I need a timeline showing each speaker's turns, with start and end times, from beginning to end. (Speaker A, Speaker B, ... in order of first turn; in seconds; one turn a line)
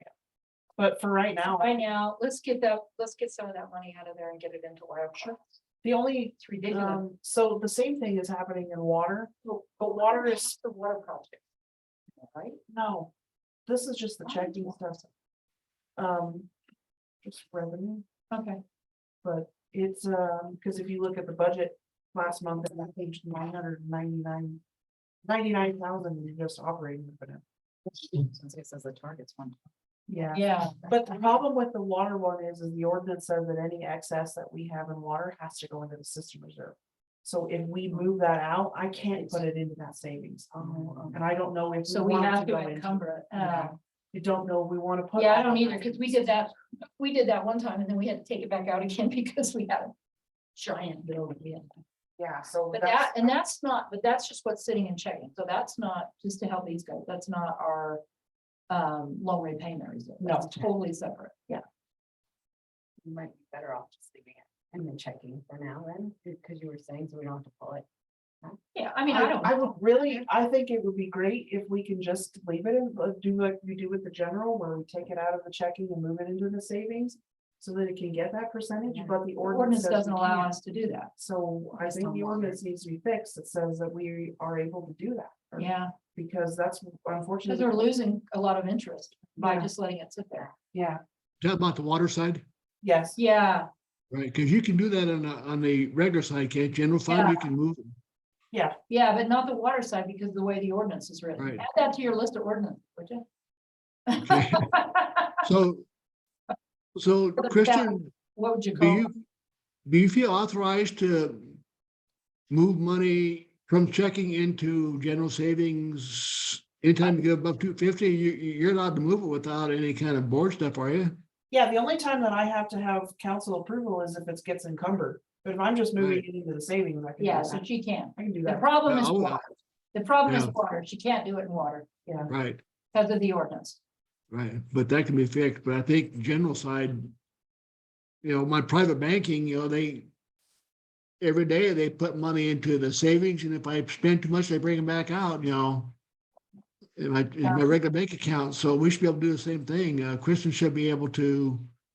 Speaker A: 0.8-1.7
Speaker B: 1.4-5.6
Speaker A: 5.8-10.5
Speaker B: 6.4-7.0
Speaker B: 9.6-11.4
Speaker B: 12.2-12.6
Speaker A: 12.7-13.1
Speaker A: 13.7-15.1
Speaker B: 14.2-14.7
Speaker A: 16.0-16.5
Speaker A: 17.2-18.1
Speaker B: 18.3-18.6
Speaker A: 19.2-24.6
Speaker A: 25.2-27.4
Speaker C: 27.9-29.6
Speaker A: 30.1-46.3
Speaker B: 30.3-30.8
Speaker C: 30.8-31.2
Speaker C: 39.0-39.4
Speaker C: 40.5-41.2
Speaker B: 41.9-43.7
Speaker B: 45.1-49.9
Speaker B: 50.5-51.7
Speaker A: 52.2-53.3
Speaker B: 52.7-58.0
Speaker B: 58.7-61.6
Speaker A: 60.2-60.7
Speaker C: 63.0-67.8
Speaker B: 68.7-69.7
Speaker A: 69.1-80.6
Speaker C: 78.8-79.2
Speaker B: 79.4-81.1
Speaker A: 81.1-87.9
Speaker C: 81.8-82.6
Speaker B: 85.6-85.9
Speaker B: 87.5-90.5
Speaker A: 89.4-89.7
Speaker A: 90.7-91.0
Speaker D: 91.4-92.4
Speaker A: 92.8-93.2
Speaker B: 93.2-93.7
Speaker D: 94.1-97.9
Speaker B: 97.1-97.5
Speaker A: 98.5-98.8
Speaker B: 98.9-103.2
Speaker B: 104.1-105.3
Speaker D: 104.2-104.7
Speaker D: 105.4-105.8
Speaker D: 107.0-108.1
Speaker B: 107.4-109.1
Speaker D: 108.8-109.1
Speaker D: 109.8-111.6
Speaker D: 112.5-121.1
Speaker A: 121.5-128.7
Speaker D: 126.0-126.2
Speaker B: 127.2-131.9
Speaker D: 128.9-129.4
Speaker A: 132.1-132.3
Speaker D: 132.3-132.6
Speaker B: 132.9-133.8
Speaker D: 134.3-137.1
Speaker D: 138.2-140.1
Speaker D: 141.2-145.9
Speaker D: 147.0-151.7
Speaker B: 147.4-147.7